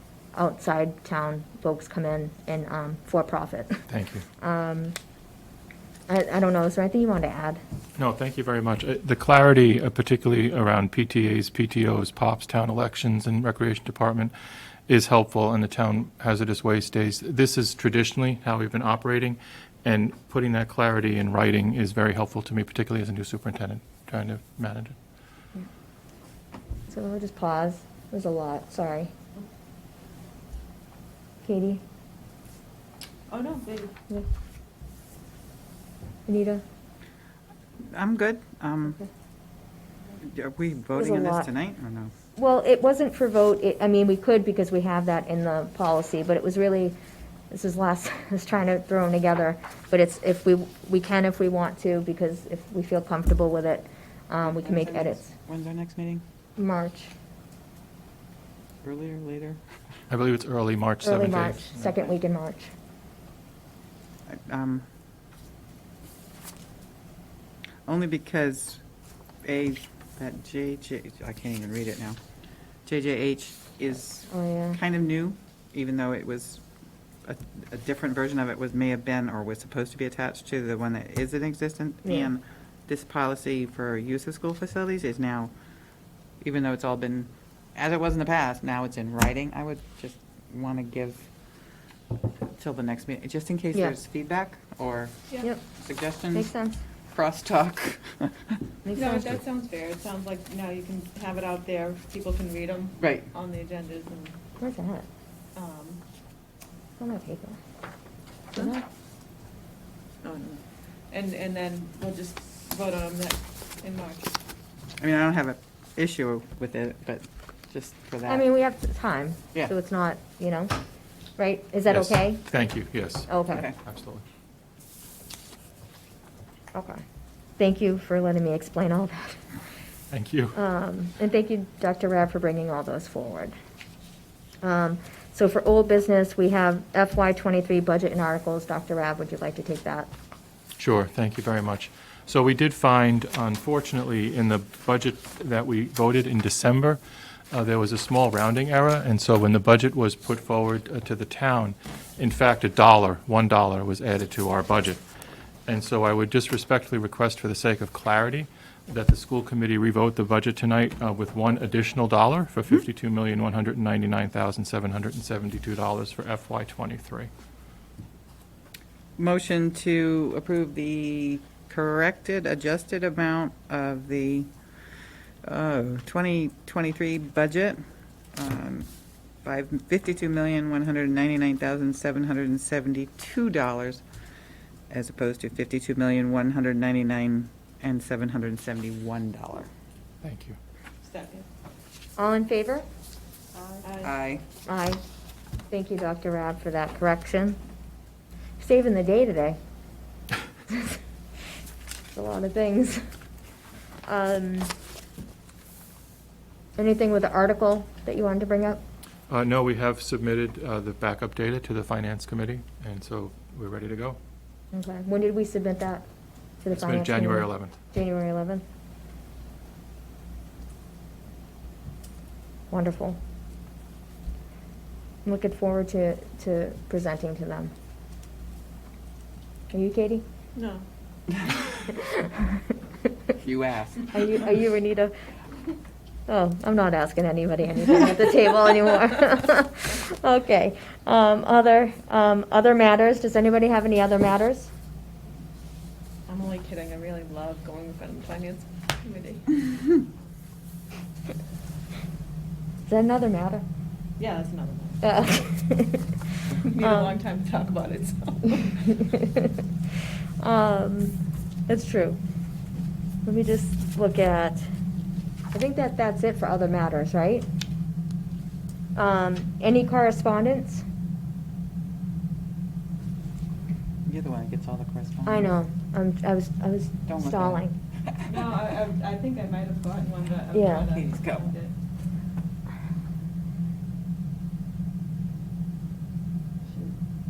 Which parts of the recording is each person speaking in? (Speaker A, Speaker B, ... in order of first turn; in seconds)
Speaker A: 0.3-3.9, 4.4-5.0, 6.1-7.6, 26.9-29.1, 31.4-31.8, 36.3-36.6, 41.0-41.5, 42.4-47.0, 47.5-55.3, 56.6-57.1, 61.0-62.7, 74.3-74.8, 96.3-96.8, 98.8-99.3, 104.6-105.1, 107.0-107.6, 108.5-108.9, 118.3-120.7, 121.4-122.4, 123.3-123.7, 126.7-127.0, 127.6-129.5, 130.5-133.5, 134.6-140.1, 192.2-192.9, 194.7-195.0, 195.7-197.6, 198.6-199.6, 200.7-201.0, 202.1-203.0, 204.1-204.7, 206.8-208.8, 214.7-216.0, 216.6-218.6, 222.7-223.2, 225.2-227.7, 229.7-230.2, 231.9-232.6, 234.1-235.1, 236.3-244.7, 252.8-253.6, 255.0-256.2, 256.8-257.1, 258.9-259.6, 260.4-261.2, 261.7-262.2, 263.2-264.7, 265.5-267.5, 269.0-270.9, 275.3-277.8, 280.5-280.9
Speaker B: 3.9-4.2, 8.0-14.3, 14.9-25.0, 60.1-62.0, 121.9-123.3, 123.8-124.2, 130.1-130.6, 140.8-155.0, 155.7-167.3, 190.2-190.6, 209.3-214.2, 216.7-217.8
Speaker C: 33.3-33.9, 98.9-104.4, 105.5-106.0, 110.2-114.4, 191.0-191.5, 193.5-194.2, 230.6-230.9, 246.3-249.7, 254.2-255.0, 256.6-259.0, 278.2-281.7
Speaker D: 37.9-39.0, 40.2-42.1, 54.4-56.2, 58.8-59.6, 64.3-64.9, 67.9-68.8, 69.4-72.2, 72.8-76.6, 77.2-85.5, 86.4-91.3, 92.6-96.5, 97.1-98.6, 103.0-103.3, 115.0-118.5, 169.2-174.5, 175.4-177.8, 178.3-178.9, 179.4-184.0, 184.9-189.7, 194.0-194.4, 233.4-234.1, 274.1-275.5, 277.1-278.5, 280.9-281.5